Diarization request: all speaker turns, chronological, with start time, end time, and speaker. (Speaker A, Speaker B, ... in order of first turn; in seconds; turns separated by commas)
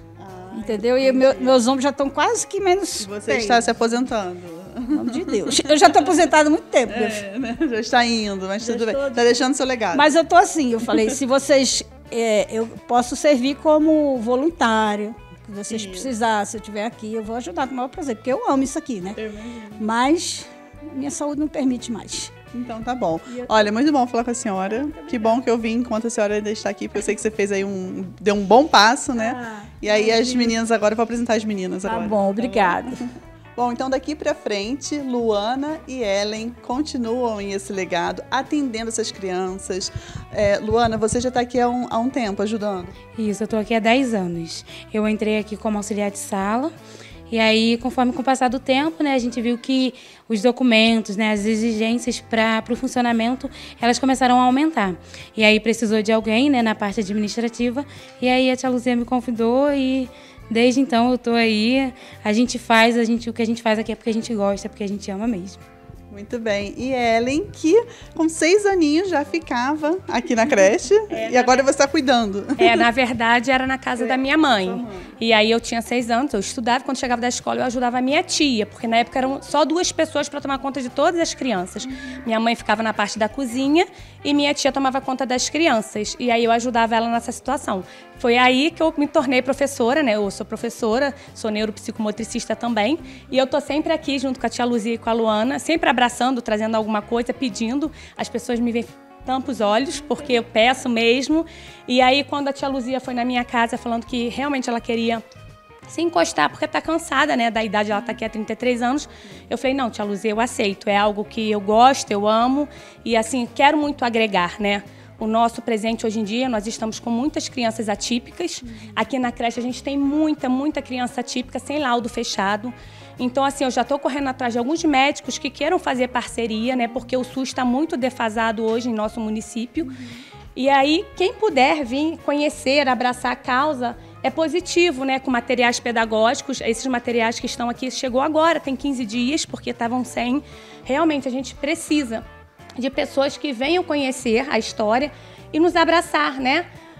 Speaker A: 0.2-1.6, Speaker B: 0.5-3.8, Speaker A: 3.0-5.8, Speaker B: 4.9-7.2, Speaker A: 6.9-10.2, Speaker B: 8.6-9.4, Speaker B: 9.9-19.2, Speaker A: 15.7-16.1, Speaker A: 19.2-19.9, Speaker B: 19.8-22.3, Speaker A: 22.5-32.8, Speaker B: 23.3-23.7, Speaker B: 24.7-25.4, Speaker B: 29.1-30.6, Speaker B: 31.8-33.0, Speaker A: 33.6-42.9, Speaker C: 43.1-46.7, Speaker C: 47.3-65.6, Speaker A: 66.1-72.8, Speaker D: 71.1-71.7, Speaker D: 72.6-105.2, Speaker A: 74.0-75.1, Speaker A: 81.9-82.2, Speaker D: 105.9-129.9, Speaker D: 130.5-142.2, Speaker D: 142.8-146.6